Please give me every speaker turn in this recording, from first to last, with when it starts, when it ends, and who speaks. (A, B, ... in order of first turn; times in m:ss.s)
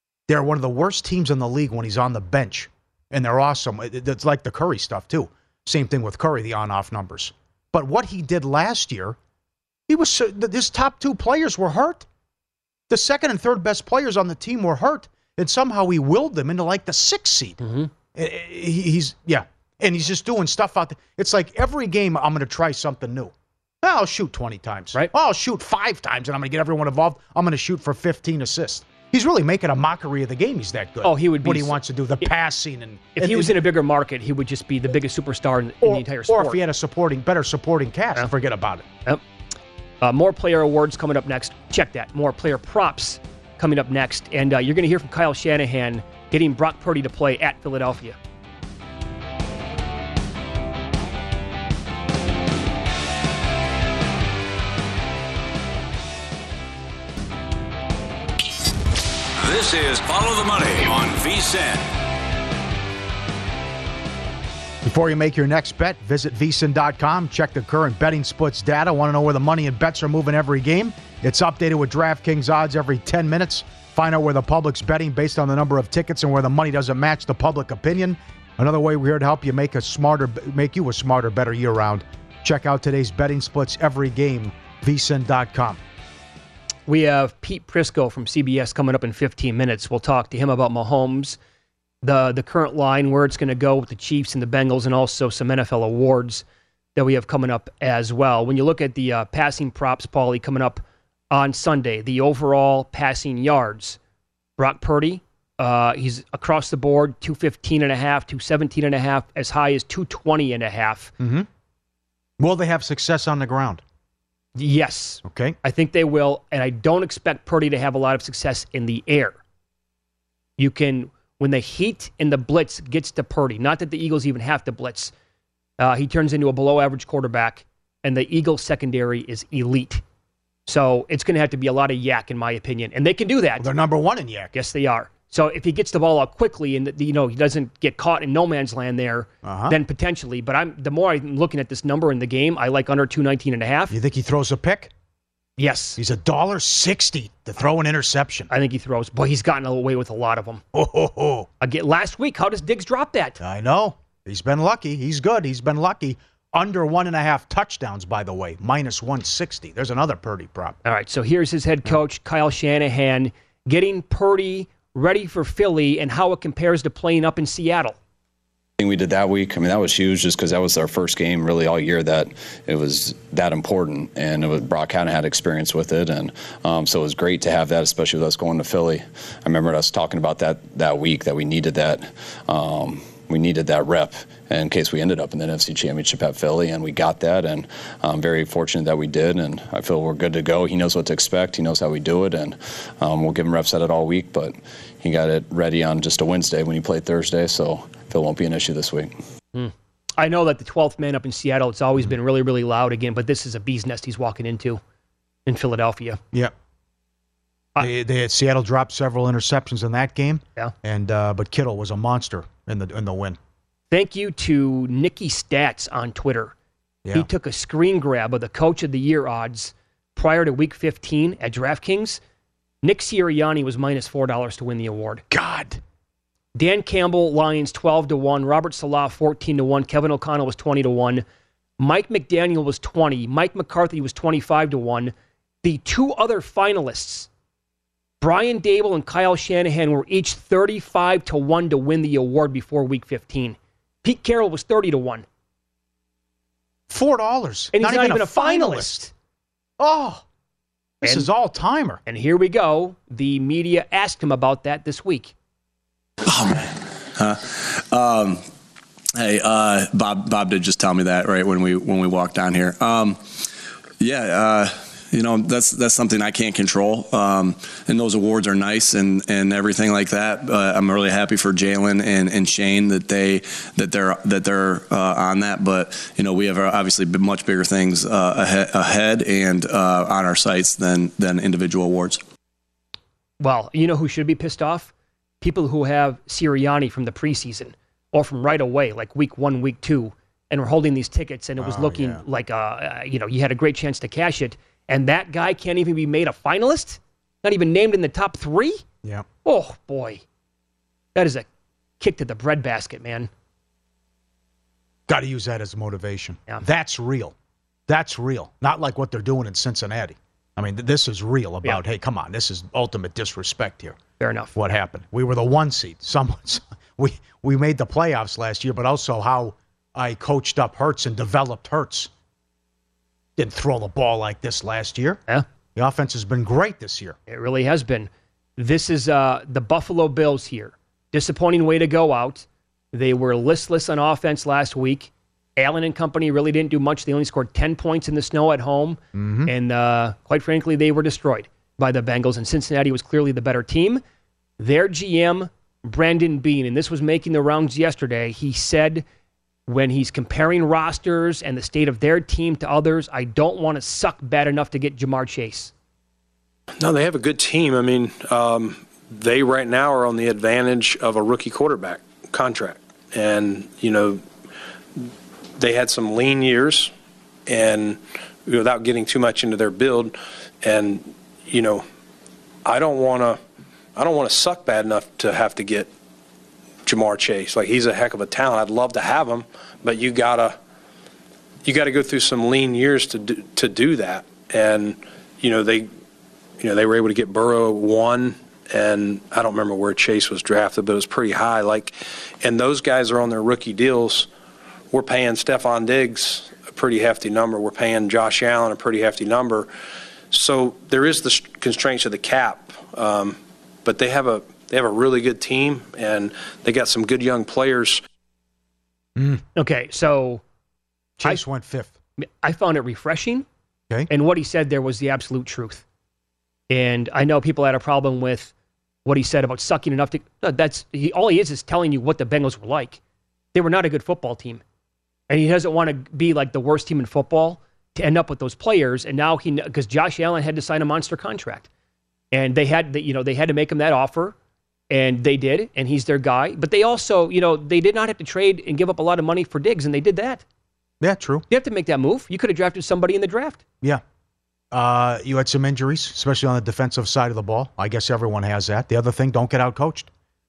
0:00.3-0:09.2 A
0:09.9-0:12.1 A
0:12.9-0:17.6 A
0:17.6-0:17.9 B
0:18.1-0:33.6 A
0:31.0-0:32.3 B
0:33.2-0:36.6 B
0:35.8-0:38.8 A
0:40.0-0:48.2 B
0:59.4-1:01.8 C
1:04.8-1:25.8 A
1:26.9-1:31.4 B
1:32.0-1:44.0 B
1:44.6-1:51.1 B
1:51.2-1:51.5 A
1:52.4-1:53.8 A
1:54.6-1:59.4 B
1:55.2-1:55.6 A
2:00.6-2:05.1 B
2:05.8-2:10.0 B
2:10.7-2:13.7 B
2:13.6-2:14.5 A
2:14.5-2:24.0 B
2:19.4-2:19.8 A
2:23.9-2:24.9 A
2:25.6-2:26.0 B
2:26.0-2:28.5 A
2:28.5-2:30.6 B
2:30.7-2:31.5 A
2:31.6-2:33.4 B
2:33.4-2:40.8 A
2:40.8-2:48.0 B
2:48.8-3:19.2 D
3:19.5-3:24.8 B
3:25.4-3:26.2 B
3:27.8-3:33.4 A
3:33.9-3:36.5 B
3:37.1-3:42.2 B
3:42.8-3:45.2 B
3:45.3-3:45.8 A
3:46.5-3:51.2 B
3:51.8-3:57.3 B
3:58.2-4:05.2 B
4:06.9-4:09.0 A
4:07.7-4:09.1 B
4:09.8-4:10.2 A
4:11.0-4:12.0 A
4:11.0-4:11.3 B
4:12.1-4:15.3 B
4:16.2-4:18.4 E
4:19.2-4:23.2 E
4:24.0-4:42.2 E
4:43.4-4:58.8 B
4:51.6-4:52.2 A
4:59.4-5:00.2 B
5:01.1-5:01.5 B
5:02.0-5:03.3 B
5:05.1-5:07.3 A
5:07.9-5:14.0 A
5:14.2-5:14.5 B
5:14.5-5:22.1 A
5:23.4-5:25.2 A
5:25.7-5:27.2 A
5:27.3-5:44.0 B
5:39.1-5:39.5 A
5:44.6-5:49.0 B
5:49.7-5:55.7 B
5:56.8-6:04.2 F
6:05.0-6:06.9 F
6:07.5-6:11.8 F
6:12.6-6:13.4 F
6:14.0-6:15.9 F
6:16.8-6:20.6 F
6:21.6-6:25.9 F
6:26.6-6:34.3 F
6:34.9-6:39.7 F
6:40.3-6:48.0 F
6:49.2-6:49.4 A
6:49.5-6:50.4 B
6:51.2-6:51.9 A
6:52.2-6:53.4 B
6:54.1-6:55.8 B
6:56.7-6:58.5 B
6:59.0-7:03.0 B
7:03.5-7:04.6 B
7:05.3-7:11.7 B
7:12.3-7:14.4 B
7:14.9-7:20.4 B
7:21.0-7:21.4 A
7:21.5-7:23.6 B
7:24.7-7:30.1 A